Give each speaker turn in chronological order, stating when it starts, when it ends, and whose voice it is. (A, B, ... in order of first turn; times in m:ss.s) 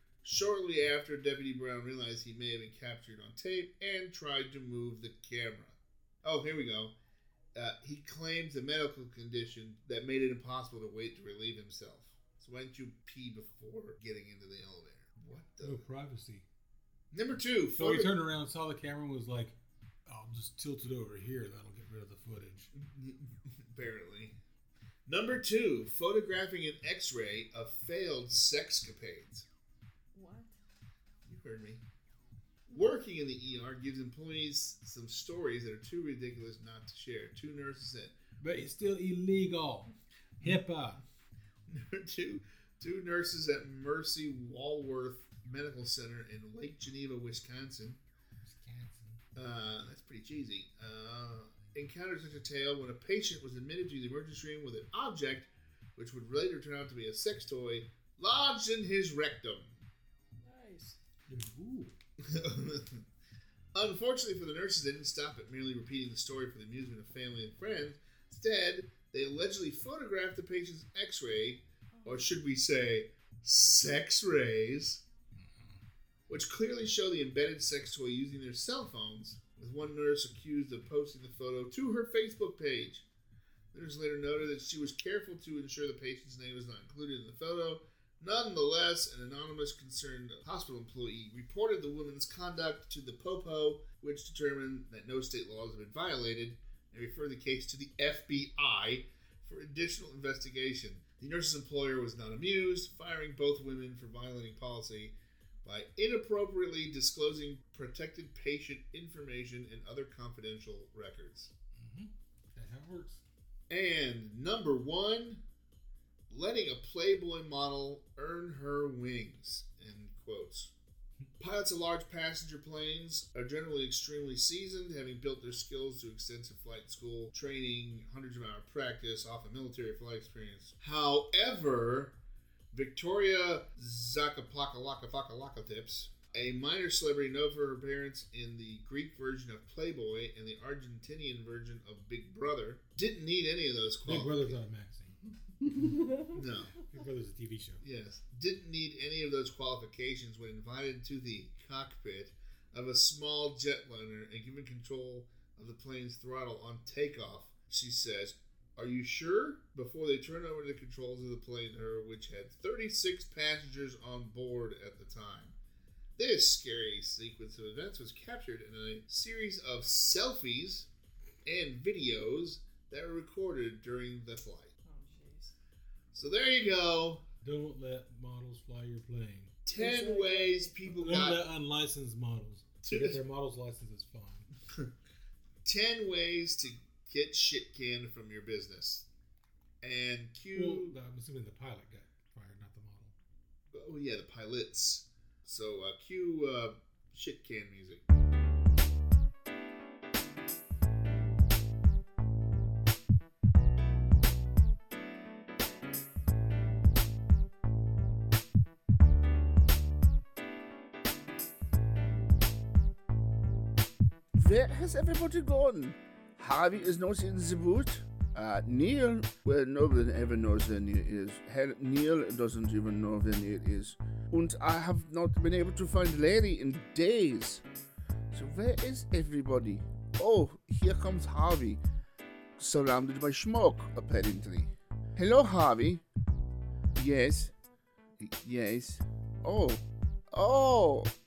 0:00.2-0:06.9 A
0:07.5-0:15.8 A
0:15.6-0:16.4 B
0:17.1-0:18.1 A
0:17.8-0:19.5 B
0:20.1-0:22.7 B
0:22.7-0:24.4 A
0:25.1-0:29.4 A
0:30.1-0:30.5 C
0:31.2-0:31.8 A
0:32.7-0:38.1 A
0:38.4-0:41.0 B
0:41.7-0:48.0 A
0:48.4-0:49.2 B
0:49.4-0:59.8 A
1:00.4-1:01.0 C
1:01.3-1:01.9 B
1:02.2-1:03.0 A
1:03.7-1:15.0 A
1:11.9-1:12.3 C
1:15.4-1:15.8 B
1:16.3-1:23.0 A
1:23.7-1:45.1 A
1:45.6-1:51.5 A
1:51.8-1:53.2 B
1:53.7-1:55.4 A
1:56.3-2:00.7 A
2:01.4-2:12.2 A
2:12.7-2:24.5 A
2:24.0-2:27.8 B
2:25.6-2:26.4 C
2:26.3-2:26.7 A
2:27.8-2:45.5 A
2:46.2-2:50.9 A
2:51.4-2:54.7 A
2:54.8-2:55.5 C
2:56.1-2:57.2 A
2:57.4-2:59.6 B
2:59.6-3:01.4 A
2:59.7-3:01.1 C
3:01.0-3:04.5 B
3:02.8-3:03.2 A
3:05.6-3:09.0 A
3:09.8-3:10.9 A
3:10.5-3:13.1 B
3:13.7-3:18.0 A
3:34.3-3:47.6 D
3:48.3-3:51.8 D
3:52.6-3:56.0 D
3:57.0-3:57.5 D
3:58.2-4:01.1 D